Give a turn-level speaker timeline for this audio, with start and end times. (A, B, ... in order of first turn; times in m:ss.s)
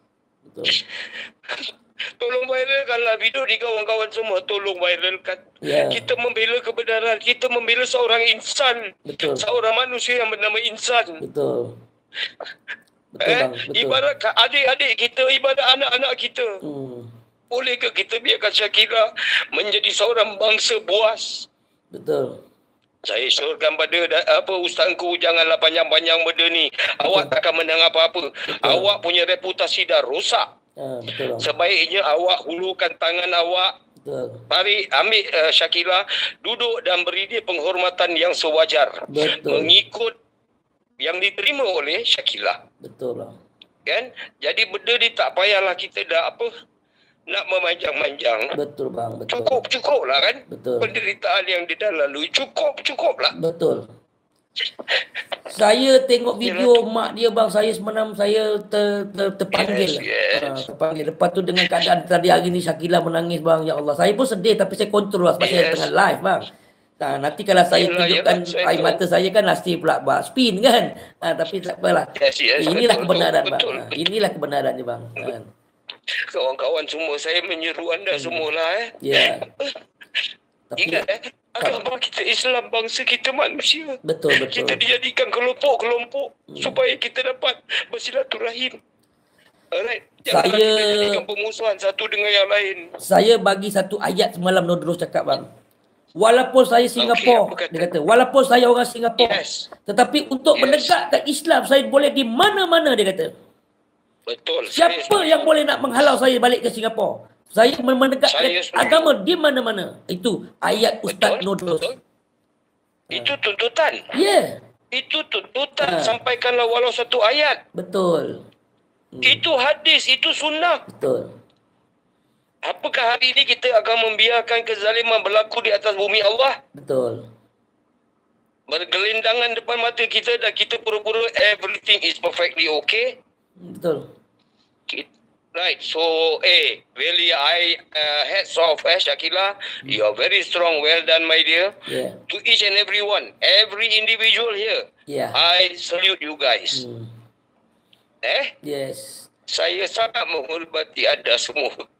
0:00.4-0:00.8 A
0:00.7-0:11.2 B
0:05.6-0:06.0 A
0:09.0-0:09.4 A
0:11.2-0:11.8 A
0:13.1-0:14.0 A
0:13.2-0:16.6 B
0:16.6-0:17.1 A
0:17.5-0:21.5 B
0:21.9-0:22.4 A
0:23.0-0:30.5 B
0:28.5-0:28.9 A
0:30.8-0:31.5 A
0:31.4-0:33.7 B
0:34.0-0:34.4 A
0:34.5-0:40.1 B
0:39.1-0:39.7 A
0:41.0-0:42.6 B
0:42.8-0:43.4 A
0:43.8-0:46.5 B
0:47.3-0:48.5 B
0:48.5-0:49.6 A
0:49.3-0:53.4 B
0:50.5-0:50.9 A
0:53.3-0:53.8 A
0:55.5-1:06.5 A
0:56.4-0:56.8 B
0:59.5-1:00.6 B
1:05.4-1:05.9 B
1:07.0-1:15.5 A
1:07.7-1:09.0 B
1:12.1-1:14.0 B
1:16.2-1:19.7 B
1:18.1-1:18.4 A
1:19.0-1:19.4 A
1:20.7-1:21.0 A
1:20.8-1:28.8 B
1:24.0-1:24.8 A
1:26.5-1:26.8 A
1:29.7-1:32.9 B
1:30.3-1:31.2 A
1:33.0-1:35.5 A
1:36.2-1:43.3 A
1:37.0-1:37.9 B
1:39.2-1:39.7 B
1:40.5-1:41.0 B
1:44.3-1:45.5 B
1:44.7-1:51.9 A
1:48.3-1:49.1 B
1:51.1-1:52.0 B
1:53.1-1:54.0 B
1:54.1-1:54.6 A
1:54.9-1:57.6 B
1:55.8-1:56.2 A
1:57.7-1:58.4 A
1:59.1-1:59.4 A
1:59.2-2:00.8 B
2:00.9-2:01.3 A
2:02.6-2:06.6 B
2:06.7-2:07.2 A
2:08.7-2:13.2 B
2:13.6-2:14.1 A
2:14.9-2:26.8 B
2:21.8-2:22.2 A
2:25.1-2:25.4 A
2:26.7-2:27.1 A
2:28.2-2:28.5 B
2:28.6-2:29.3 A
2:29.5-2:31.8 B